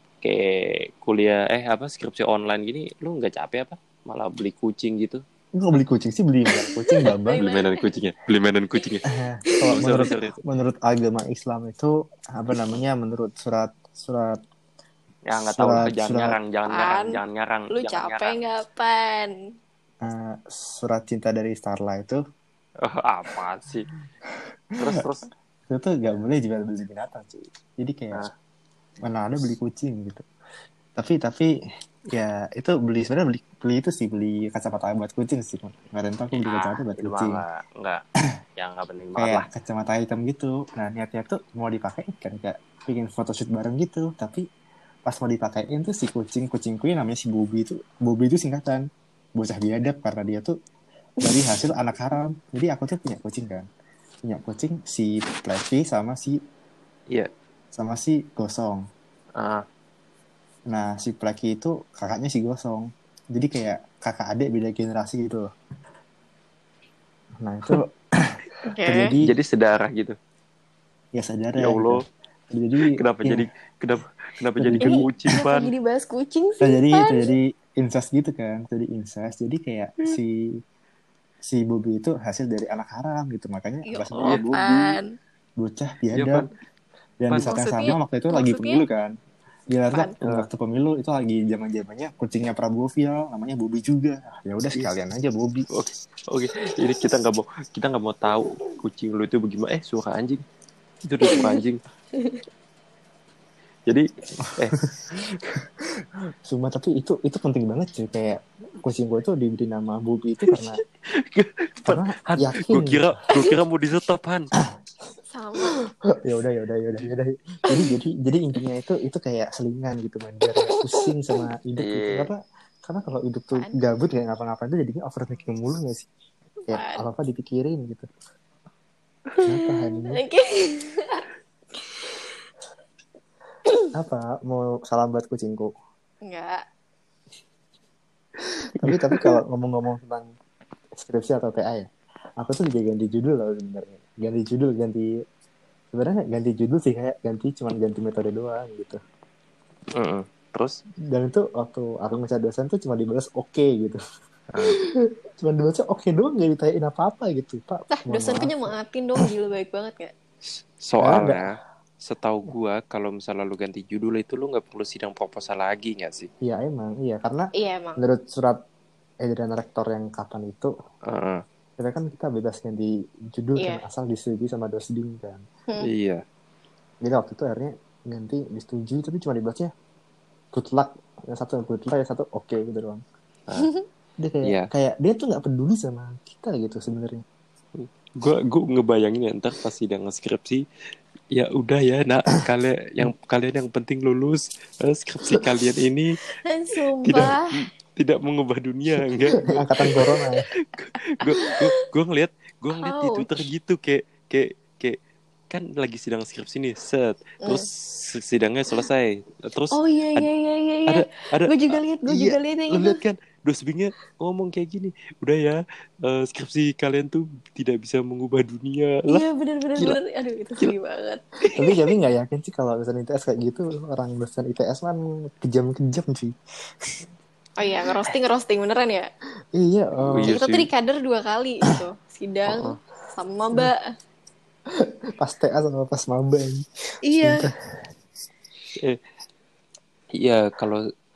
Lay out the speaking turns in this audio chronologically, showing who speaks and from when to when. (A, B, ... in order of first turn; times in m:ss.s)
0:00.2-0:05.2 A
0:05.6-0:07.5 B
0:06.6-0:07.9 C
0:07.4-0:09.0 A
0:09.1-0:14.4 B
0:09.6-0:10.2 C
0:09.7-0:10.4 A
0:15.3-0:18.4 A
0:15.6-0:16.4 B
0:16.7-0:17.2 C
0:17.7-0:19.3 C
0:20.0-0:22.2 B
0:22.8-0:23.9 A
0:24.3-0:25.1 B
0:24.8-0:25.3 A
0:25.7-0:28.2 B
0:29.0-0:30.3 B
0:31.0-0:31.5 B
0:32.1-0:37.4 B
0:36.4-0:38.0 A
0:38.6-0:39.5 A
0:39.2-0:44.4 B
0:45.1-0:50.6 B
0:51.2-0:53.7 B
0:54.2-0:56.4 B
0:57.7-0:58.8 B
0:59.4-0:59.6 A
1:00.7-1:05.5 B
1:07.4-1:09.4 B
1:08.7-1:09.2 C
1:09.2-1:10.2 A
1:11.1-1:12.0 B
1:11.6-1:12.0 A
1:12.5-1:13.5 B
1:12.8-1:15.7 A
1:14.6-1:15.1 B
1:14.8-1:17.3 C
1:16.6-1:20.5 B
1:21.4-1:25.0 B
1:23.9-1:25.1 C
1:24.1-1:24.4 A
1:25.6-1:26.5 B
1:26.1-1:26.5 A
1:27.2-1:29.1 B
1:27.3-1:27.6 A
1:27.4-1:28.8 C
1:29.7-1:35.7 B
1:30.2-1:30.5 A
1:35.7-1:40.4 A
1:41.0-1:41.8 A
1:41.3-1:41.6 C
1:42.2-1:42.4 C
1:43.9-1:44.9 A
1:44.4-1:44.8 B
1:45.8-1:50.8 B
1:50.5-1:54.5 A
1:51.9-1:53.1 B
1:55.3-1:55.8 C
1:56.2-2:06.1 B
2:00.6-2:01.1 C
2:01.8-2:02.3 A
2:03.5-2:03.8 C
2:06.7-2:07.0 C
2:06.7-2:08.1 B
2:09.5-2:10.2 B
2:09.5-2:11.3 C
2:13.9-2:15.7 B
2:16.3-2:16.6 C
2:18.8-2:20.3 B
2:18.8-2:19.2 A
2:21.0-2:25.1 B
2:25.9-2:29.0 B
2:30.0-2:30.8 A
2:31.1-2:34.0 B
2:34.6-2:38.7 B
2:37.9-2:40.1 C
2:40.4-2:41.5 A
2:41.0-2:41.5 B
2:42.0-2:46.3 A
2:46.4-2:48.6 B
2:47.6-2:48.0 C
2:49.2-2:50.7 B
2:51.1-2:51.4 A
2:51.8-2:55.4 B
2:53.6-2:53.8 C
2:55.8-2:56.2 A
2:57.0-2:59.7 B
3:00.5-3:03.0 B
3:03.6-3:03.9 C
3:04.2-3:07.2 B
3:04.4-3:04.7 A
3:07.8-3:10.6 A
3:11.3-3:16.2 A
3:16.4-3:17.5 C
3:17.0-3:19.4 A
3:19.0-3:20.5 B
3:20.7-3:25.0 A
3:21.3-3:21.8 C
3:22.8-3:23.3 C
3:25.5-3:30.3 A
3:29.7-3:33.0 C
3:30.9-3:39.2 A
3:39.1-3:41.8 C
3:41.6-3:47.1 B
3:47.6-3:49.1 C
3:49.6-3:50.4 B
3:50.0-3:50.7 A
3:50.3-3:53.8 C
3:52.5-3:52.8 A
3:54.8-3:56.7 B
3:57.1-3:57.5 C
3:57.2-3:57.5 B
4:00.2-4:00.8 A